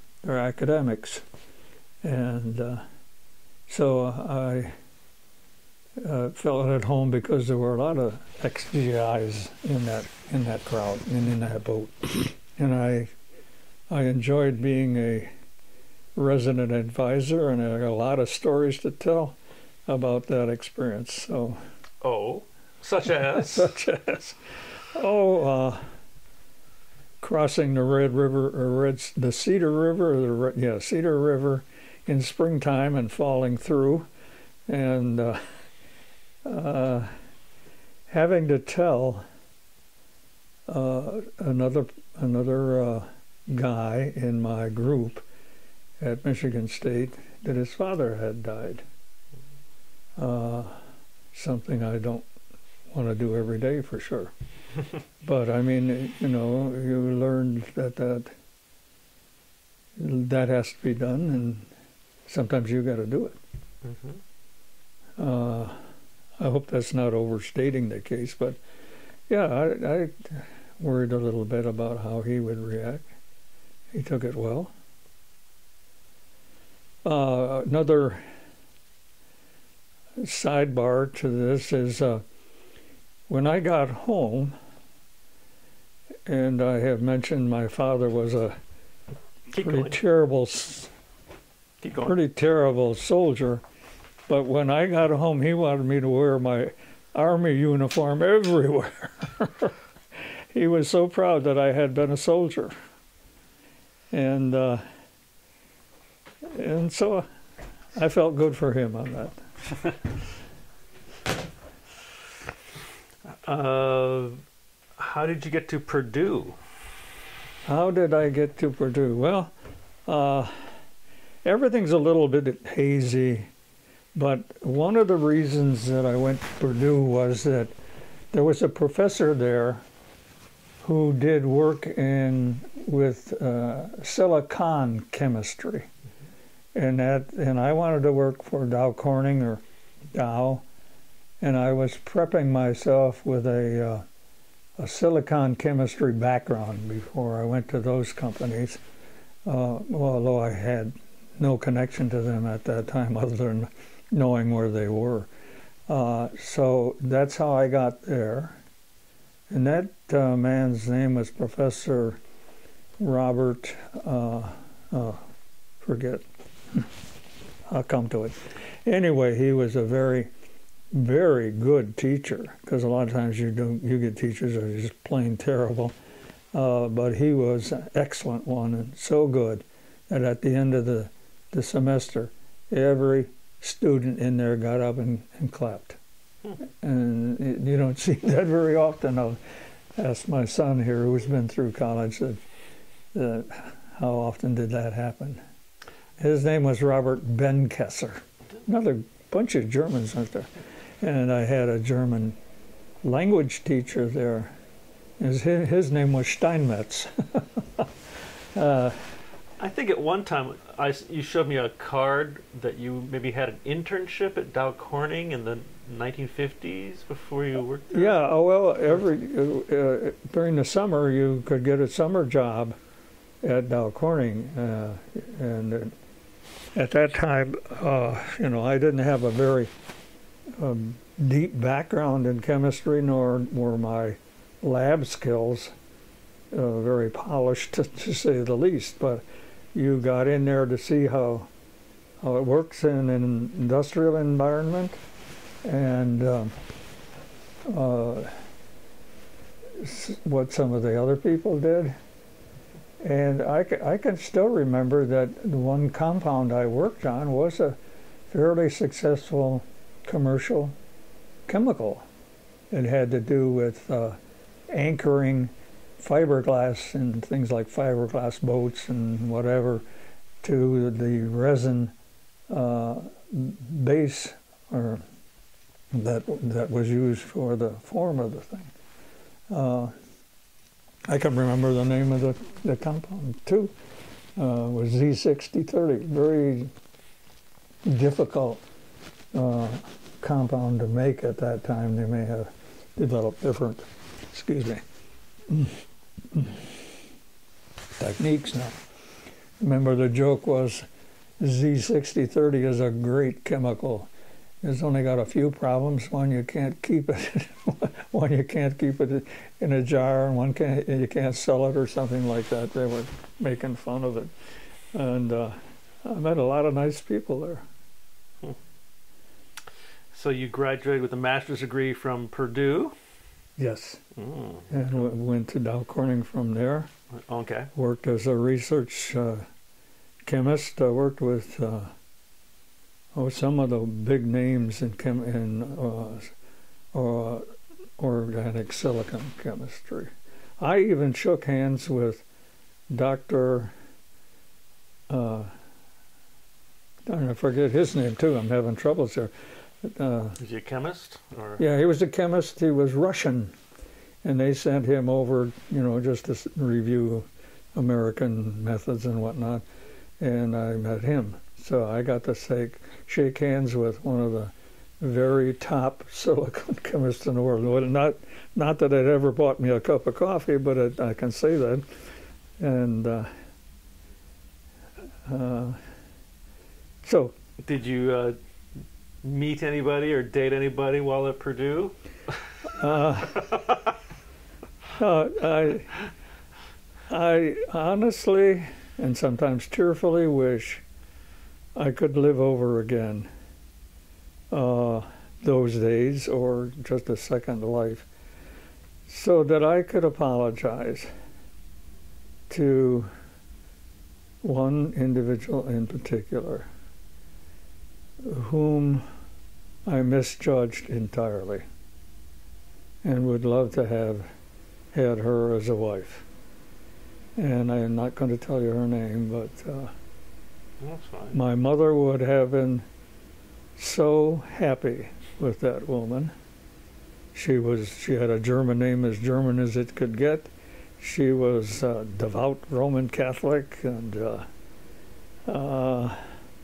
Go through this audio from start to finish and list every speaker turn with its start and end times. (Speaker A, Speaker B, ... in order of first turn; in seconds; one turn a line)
Speaker A: 0.2-1.3
Speaker A: 2.0-2.8
Speaker A: 3.7-4.8
Speaker A: 6.0-13.1
Speaker A: 13.9-15.3
Speaker A: 16.2-21.6
Speaker B: 22.0-23.7
Speaker A: 23.1-25.9
Speaker A: 27.2-34.1
Speaker A: 34.7-35.4
Speaker A: 36.4-37.1
Speaker A: 38.1-39.2
Speaker A: 40.7-45.2
Speaker A: 46.0-48.9
Speaker A: 50.2-50.8
Speaker A: 51.3-52.3
Speaker A: 52.9-54.3
Speaker A: 55.2-58.3
Speaker A: 60.0-61.7
Speaker A: 62.3-63.4
Speaker B: 63.8-64.2
Speaker A: 65.2-65.8
Speaker A: 66.4-68.6
Speaker A: 69.3-73.0
Speaker A: 73.9-74.7
Speaker A: 77.0-78.2
Speaker A: 80.2-82.2
Speaker A: 83.3-84.6
Speaker A: 86.3-88.6
Speaker B: 89.5-89.9
Speaker A: 89.5-90.9
Speaker B: 91.8-92.1
Speaker A: 92.0-93.6
Speaker A: 94.3-99.8
Speaker A: 100.5-102.7
Speaker A: 104.1-104.8
Speaker A: 106.4-107.3
Speaker A: 107.9-109.4
Speaker B: 113.5-114.4
Speaker B: 115.0-116.6
Speaker A: 117.7-119.5
Speaker A: 120.1-120.5
Speaker A: 121.5-123.5
Speaker A: 124.2-127.8
Speaker A: 128.3-129.8
Speaker A: 130.8-135.9
Speaker A: 136.8-139.6
Speaker A: 140.1-140.7
Speaker A: 141.4-144.1
Speaker A: 144.8-148.8
Speaker A: 149.4-155.3
Speaker A: 155.9-158.6
Speaker A: 159.5-162.2
Speaker A: 163.0-165.2
Speaker A: 165.8-166.9
Speaker A: 167.7-170.3
Speaker A: 170.9-175.9
Speaker A: 176.5-186.0
Speaker A: 186.6-189.4
Speaker A: 190.0-192.4
Speaker A: 193.1-195.4
Speaker A: 196.2-202.4
Speaker A: 203.0-204.5
Speaker A: 205.2-207.9
Speaker A: 208.5-209.0
Speaker B: 209.6-218.1
Speaker A: 217.9-222.8
Speaker A: 223.4-226.0
Speaker A: 226.8-229.7
Speaker A: 230.5-235.7
Speaker A: 236.5-241.5
Speaker A: 242.2-245.0
Speaker A: 245.6-246.6
Speaker A: 247.7-248.4
Speaker A: 249.8-252.0
Speaker A: 253.0-257.8
Speaker A: 258.3-260.8
Speaker A: 261.5-262.1
Speaker A: 262.7-264.2
Speaker A: 264.7-269.9
Speaker A: 270.4-271.9
Speaker A: 272.5-275.0
Speaker A: 275.9-278.7
Speaker A: 279.5-279.9
Speaker A: 281.1-283.7
Speaker A: 284.4-286.7
Speaker A: 287.9-288.6
Speaker A: 289.3-294.8
Speaker A: 295.5-296.7
Speaker A: 298.0-298.8
Speaker A: 299.6-300.9
Speaker A: 301.4-304.1
Speaker A: 304.6-314.3
Speaker A: 314.9-317.6
Speaker B: 320.1-322.9
Speaker A: 323.6-324.0
Speaker B: 324.2-324.7
Speaker A: 324.7-326.9
Speaker B: 327.1-327.7
Speaker A: 327.8-329.5
Speaker A: 330.2-331.9
Speaker A: 333.1-336.3
Speaker A: 336.9-337.5
Speaker A: 338.0-342.2
Speaker A: 342.9-343.7
Speaker A: 345.1-345.5
Speaker A: 347.1-350.4
Speaker B: 350.4-351.6
Speaker A: 351.6-353.5
Speaker A: 354.2-359.6
Speaker A: 360.2-371.9
Speaker A: 372.6-373.3
Speaker A: 375.2-375.8
Speaker A: 377.0-377.4
Speaker B: 377.6-378.4
Speaker B: 379.2-382.0
Speaker A: 382.7-383.5
Speaker B: 383.4-383.8
Speaker A: 384.9-386.0
Speaker A: 387.1-390.8
Speaker A: 391.8-393.3
Speaker A: 394.5-398.1
Speaker A: 399.1-401.1
Speaker A: 402.5-403.1
Speaker A: 404.4-406.7
Speaker A: 408.2-409.1
Speaker A: 409.9-411.6
Speaker A: 413.0-414.3
Speaker A: 414.9-416.3
Speaker A: 417.4-419.9
Speaker B: 420.8-421.4
Speaker A: 421.3-422.9
Speaker A: 423.8-426.3
Speaker A: 427.3-434.5
Speaker A: 435.5-436.3